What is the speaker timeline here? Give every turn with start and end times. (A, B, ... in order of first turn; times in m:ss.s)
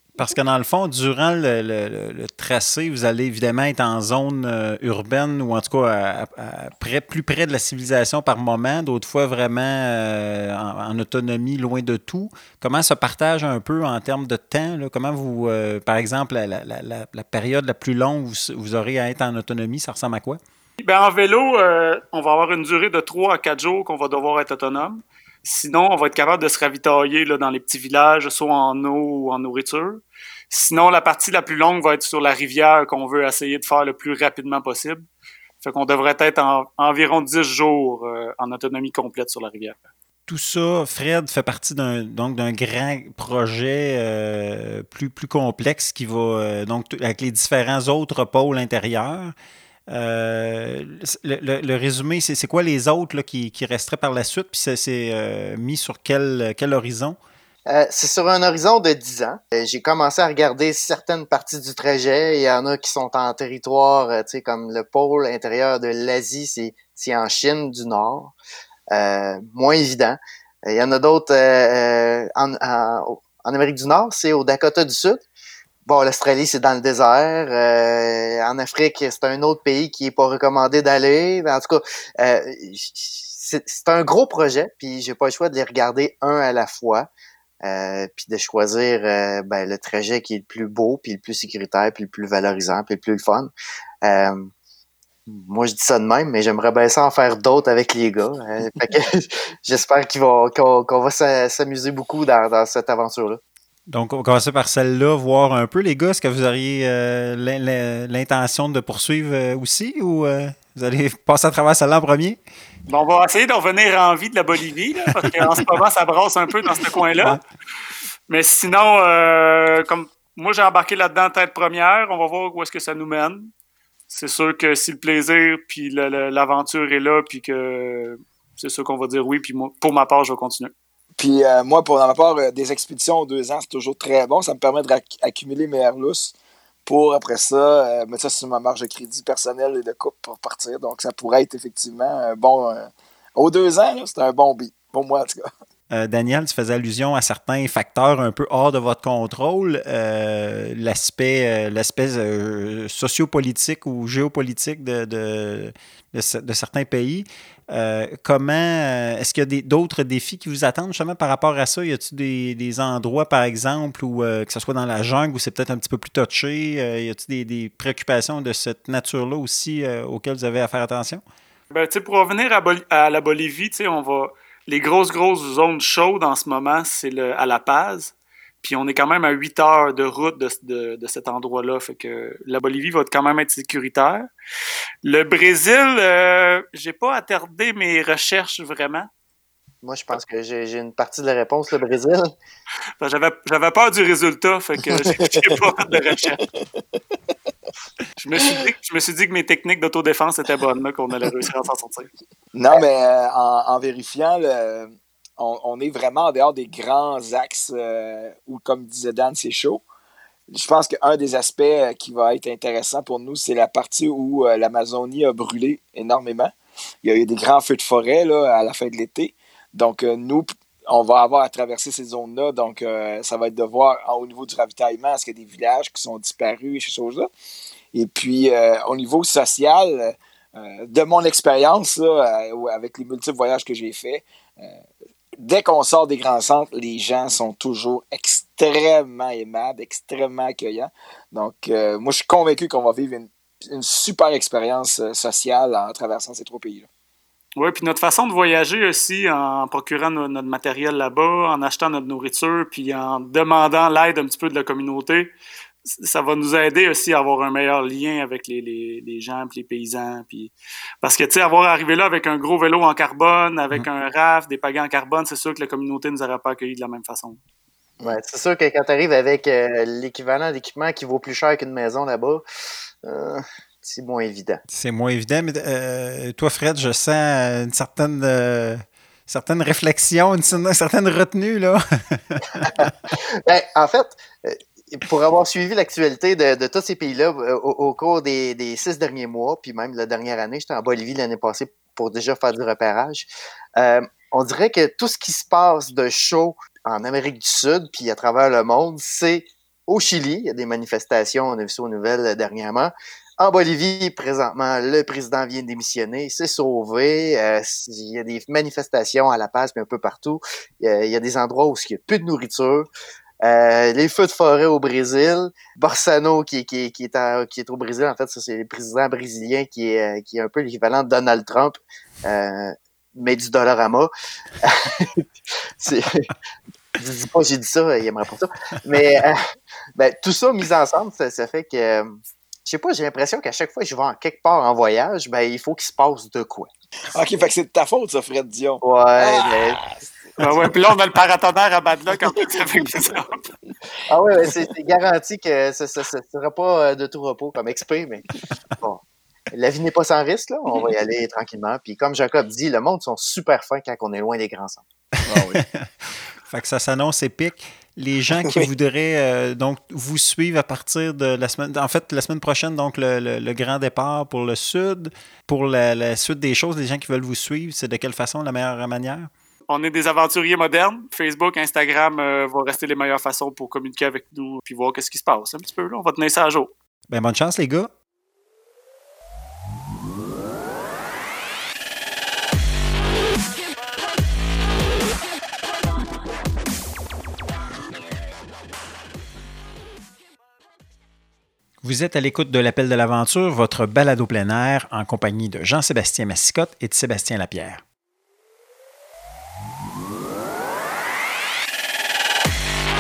0:00.2-0:20.4 A
0:20.8-0:35.1 B
0:35.6-0:39.8 B
0:40.3-0:49.3 A
0:49.9-0:57.2 A
0:57.7-1:08.3 C
1:08.9-1:15.2 C
1:15.9-1:27.1 C
1:27.6-1:33.5 C
1:34.0-1:34.5 C
1:35.3-1:43.4 C
1:43.9-1:52.4 A
1:52.9-1:57.4 B
1:58.3-2:03.5 B
2:04.1-2:10.7 B
2:11.2-2:16.3 D
2:16.9-2:25.5 D
2:25.9-2:51.2 A
2:51.7-3:04.3 B
3:05.0-3:09.1 B
3:09.8-3:12.3 C
3:13.0-3:16.4 B
3:15.1-3:15.6 D
3:18.2-3:22.1 B
3:22.6-3:29.8 D
3:30.5-3:36.5 D
3:37.0-3:47.3 D
3:47.9-3:54.8 D
3:55.4-4:06.9 D
4:07.6-4:15.3 B
4:15.9-4:27.4 B
4:28.0-4:32.4 C
4:33.0-4:34.6 C
4:34.7-4:42.9 A
4:42.6-5:12.9 C
5:13.4-5:24.1 C
5:24.6-5:25.2 C
5:25.8-5:26.3 C
5:27.0-5:29.4 C
5:30.0-5:36.7 C
5:37.1-5:40.6 D
5:38.8-5:39.8 C
5:40.4-5:43.4 B
5:42.3-5:42.9 D
5:44.1-5:48.2 C
5:48.8-5:54.8 C
5:55.2-6:09.3 A
5:55.3-5:55.6 D
5:58.4-5:58.7 D
6:09.7-6:16.7 B
6:17.1-6:17.9 A
6:31.8-6:37.8 A